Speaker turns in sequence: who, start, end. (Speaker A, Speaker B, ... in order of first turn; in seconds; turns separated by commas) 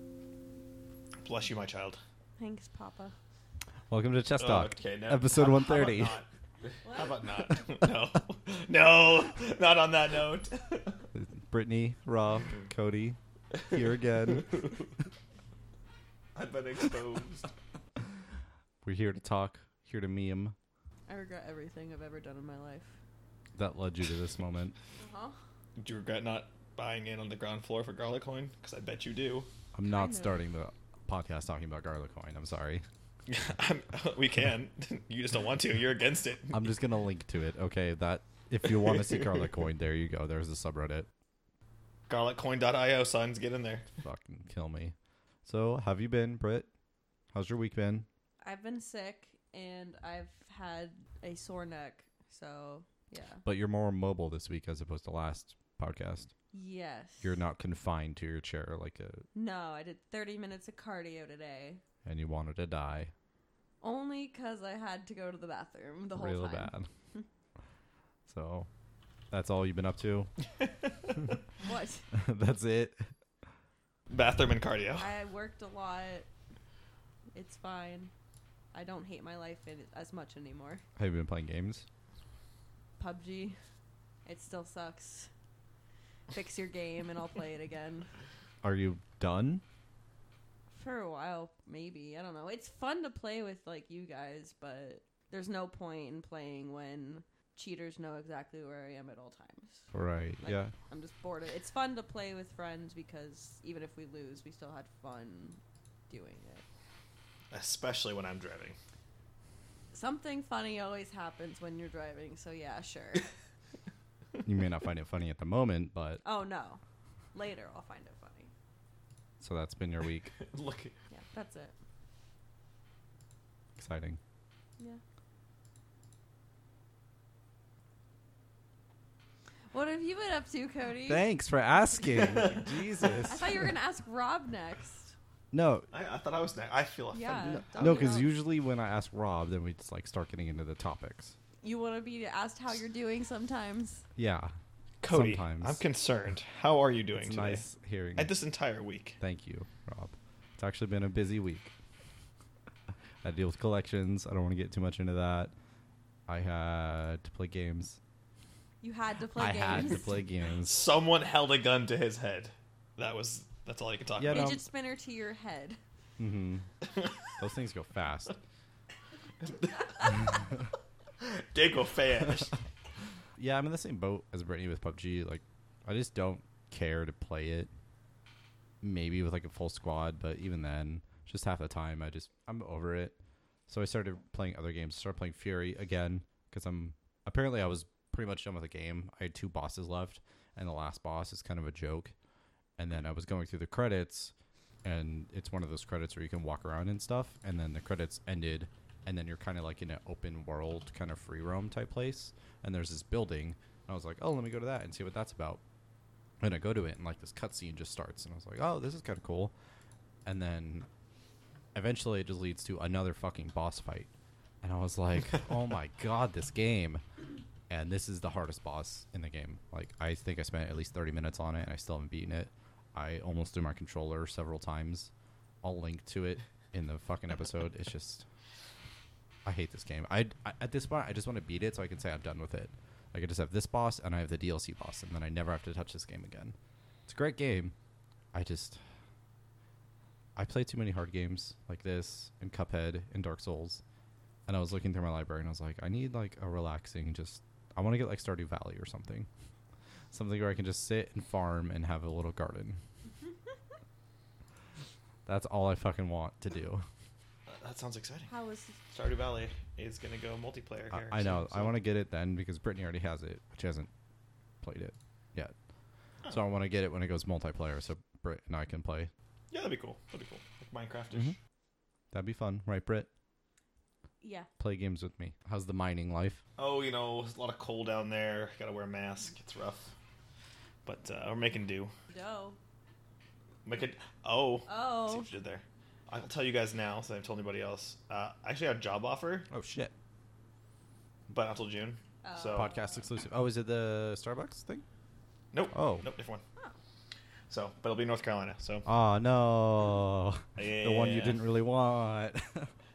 Speaker A: 1.2-2.0, Speaker B: 2.4-3.1, Speaker C: 3.9-6.2, Speaker A: 4.4-11.0, Speaker B: 6.8-7.2, Speaker C: 11.1-13.2, Speaker A: 13.6-14.9, Speaker C: 13.7-14.7, Speaker A: 16.3-17.5, Speaker C: 18.8-20.6, Speaker B: 21.1-22.9, Speaker C: 23.6-24.8, Speaker B: 25.0-25.4, Speaker A: 25.8-29.5, Speaker C: 29.7-32.8, Speaker B: 29.9-30.4, Speaker A: 33.3-36.7, Speaker C: 36.5-41.1, Speaker A: 38.7-39.4, Speaker A: 42.1-43.9, Speaker C: 44.0-46.7, Speaker C: 47.3-48.1, Speaker B: 48.4-53.4, Speaker C: 53.4-56.3, Speaker B: 56.5-57.4, Speaker C: 57.2-59.2, Speaker B: 59.3-61.8, Speaker C: 62.0-63.1, Speaker B: 63.8-67.2, Speaker C: 66.1-66.9, Speaker C: 68.3-68.7, Speaker C: 69.3-70.3, Speaker B: 71.6-72.0, Speaker C: 72.1-73.1, Speaker A: 74.1-75.1, Speaker B: 75.0-76.3, Speaker B: 77.3-78.1, Speaker B: 78.7-80.8, Speaker C: 81.0-81.8, Speaker B: 83.0-83.6, Speaker B: 84.2-85.3, Speaker B: 86.3-88.1, Speaker C: 88.6-89.6, Speaker B: 90.7-99.9, Speaker C: 99.9-100.7, Speaker B: 100.4-106.6, Speaker A: 107.5-108.8, Speaker B: 109.9-113.3, Speaker C: 114.4-116.2, Speaker B: 116.2-116.8, Speaker B: 117.3-118.5, Speaker C: 119.4-120.3, Speaker A: 120.4-120.9, Speaker B: 121.1-121.7, Speaker C: 123.8-124.2, Speaker B: 129.7-131.2, Speaker C: 131.0-133.7, Speaker A: 132.1-132.7, Speaker B: 133.2-135.2, Speaker C: 135.5-135.9, Speaker A: 135.9-138.2, Speaker B: 137.1-138.3, Speaker C: 137.4-141.3, Speaker B: 141.6-144.0, Speaker C: 144.2-144.5, Speaker A: 145.0-147.6, Speaker C: 145.1-145.8, Speaker C: 147.2-148.3, Speaker A: 148.2-149.2, Speaker C: 149.2-151.7, Speaker C: 153.2-155.5, Speaker C: 156.3-158.0, Speaker B: 158.8-160.2, Speaker C: 159.3-160.8, Speaker A: 160.6-164.6, Speaker C: 164.2-164.6, Speaker B: 164.3-165.8, Speaker C: 166.2-166.7, Speaker C: 167.4-168.4, Speaker A: 169.4-170.2, Speaker A: 171.2-172.5, Speaker C: 173.4-177.7, Speaker C: 178.8-183.2, Speaker C: 183.7-192.1, Speaker C: 192.8-194.3, Speaker C: 194.8-205.6, Speaker C: 206.4-209.5, Speaker C: 210.2-210.9, Speaker C: 211.7-214.1, Speaker C: 214.6-217.0, Speaker C: 217.7-225.1, Speaker C: 225.6-228.2, Speaker C: 229.4-236.5, Speaker C: 237.1-237.7, Speaker C: 238.3-238.8, Speaker C: 240.3-243.8, Speaker C: 244.5-249.3, Speaker C: 250.1-252.8, Speaker C: 255.2-256.9, Speaker A: 257.5-258.3, Speaker B: 258.3-258.8, Speaker A: 258.9-261.8, Speaker C: 260.9-263.9, Speaker C: 264.6-265.5, Speaker C: 266.3-269.1, Speaker A: 269.5-271.4, Speaker C: 272.1-273.1, Speaker B: 274.2-274.5, Speaker C: 274.6-276.4, Speaker A: 276.6-279.9, Speaker A: 280.8-281.9, Speaker B: 282.1-282.6, Speaker A: 283.6-289.5, Speaker B: 284.6-285.3, Speaker C: 289.5-289.9, Speaker A: 291.3-292.7, Speaker B: 292.2-293.0, Speaker C: 292.5-294.8, Speaker A: 295.5-296.4, Speaker C: 295.7-296.1, Speaker A: 297.5-298.9, Speaker C: 298.9-302.7, Speaker A: 300.6-301.4